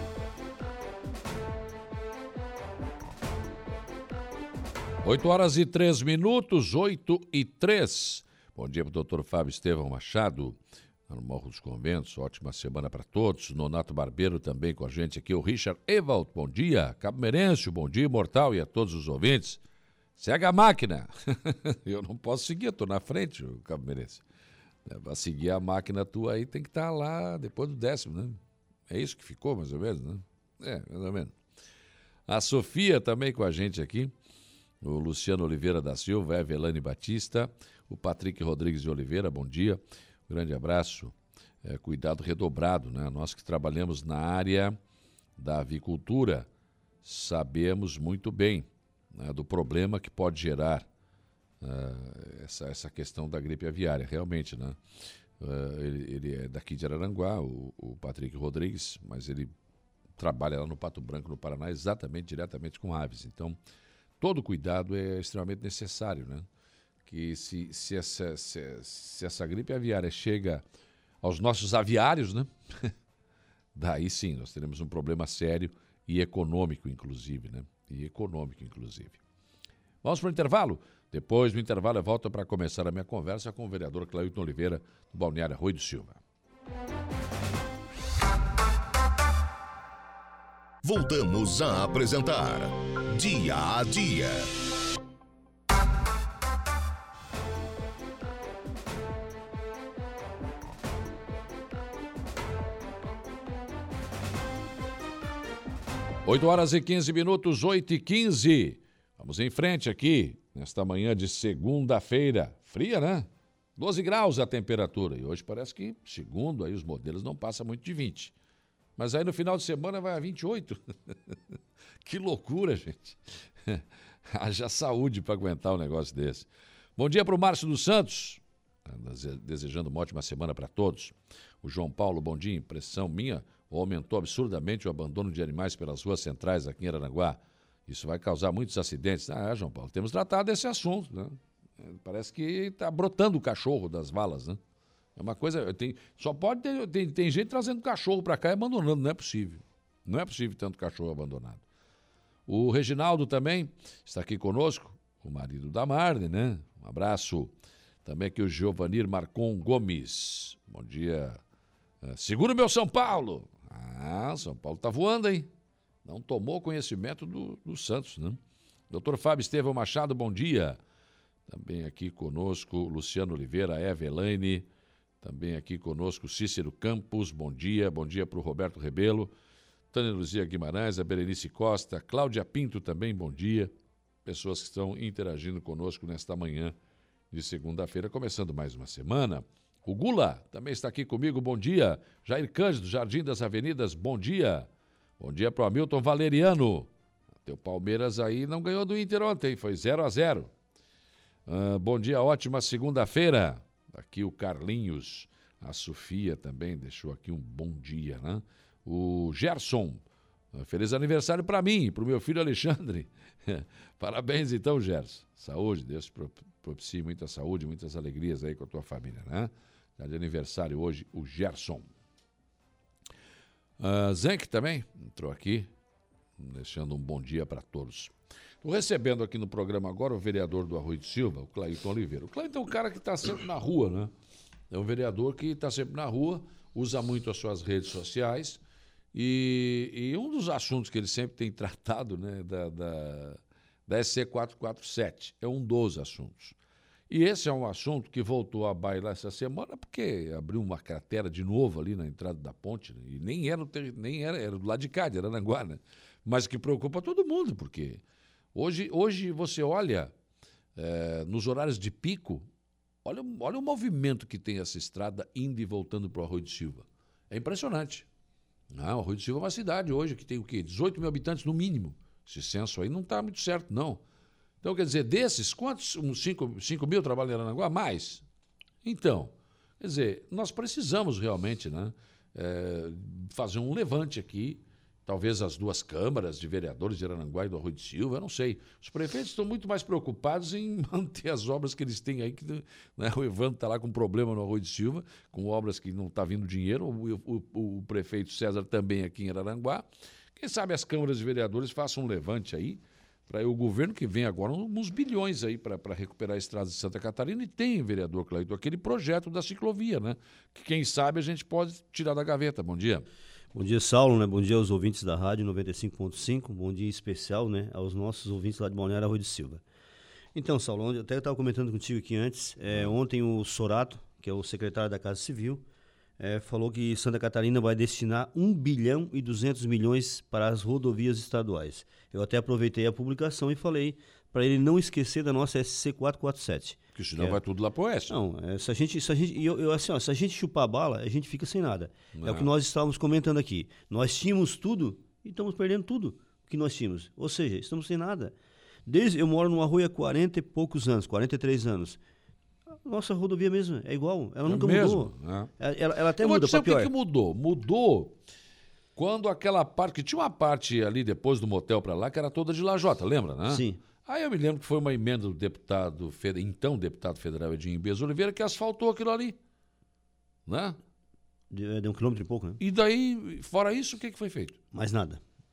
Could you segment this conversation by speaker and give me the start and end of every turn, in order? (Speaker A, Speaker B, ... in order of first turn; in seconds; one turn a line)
Speaker A: 5.0-19.6
Speaker A: 20.2-24.2
Speaker A: 24.9-28.4
Speaker A: 28.9-31.3
Speaker A: 32.3-34.1
Speaker A: 34.8-44.8
Speaker A: 45.4-46.5
Speaker A: 47.0-50.9
Speaker A: 51.6-54.8
Speaker A: 55.4-59.5
Speaker A: 60.2-63.6
Speaker A: 64.2-66.5
Speaker A: 67.0-70.6
Speaker A: 71.2-72.9
Speaker A: 73.7-79.2
Speaker A: 80.0-86.2
Speaker B: 90.8-94.5
Speaker A: 106.2-118.3
Speaker A: 119.0-121.3
Speaker A: 122.0-144.6
Speaker A: 145.2-151.6
Speaker A: 152.5-157.5
Speaker A: 158.0-161.4
Speaker A: 162.0-165.5
Speaker A: 166.0-170.8
Speaker A: 171.5-174.7
Speaker A: 175.2-179.3
Speaker A: 179.9-183.7
Speaker A: 184.2-186.7
Speaker A: 187.3-196.9
Speaker A: 197.4-200.5
Speaker A: 201.5-210.0
Speaker A: 210.5-221.8
Speaker A: 223.8-225.7
Speaker A: 226.4-234.1
Speaker A: 234.7-238.6
Speaker A: 239.1-246.5
Speaker A: 247.1-258.0
Speaker A: 258.5-260.1
Speaker A: 260.8-262.5
Speaker A: 263.0-268.1
Speaker A: 268.7-274.0
Speaker A: 274.6-278.2
Speaker A: 278.8-299.8
Speaker A: 300.4-313.1
Speaker C: 313.5-319.6
Speaker C: 320.3-325.6
Speaker C: 326.2-337.4
Speaker A: 336.9-338.2
Speaker C: 338.1-348.3
Speaker A: 342.1-342.5
Speaker C: 348.9-352.0
Speaker C: 352.8-356.9
Speaker A: 354.4-355.5
Speaker A: 356.2-358.1
Speaker A: 358.9-369.4
Speaker C: 363.5-363.8
Speaker A: 370.5-370.8
Speaker C: 371.5-372.6
Speaker A: 372.6-374.6
Speaker C: 374.7-375.2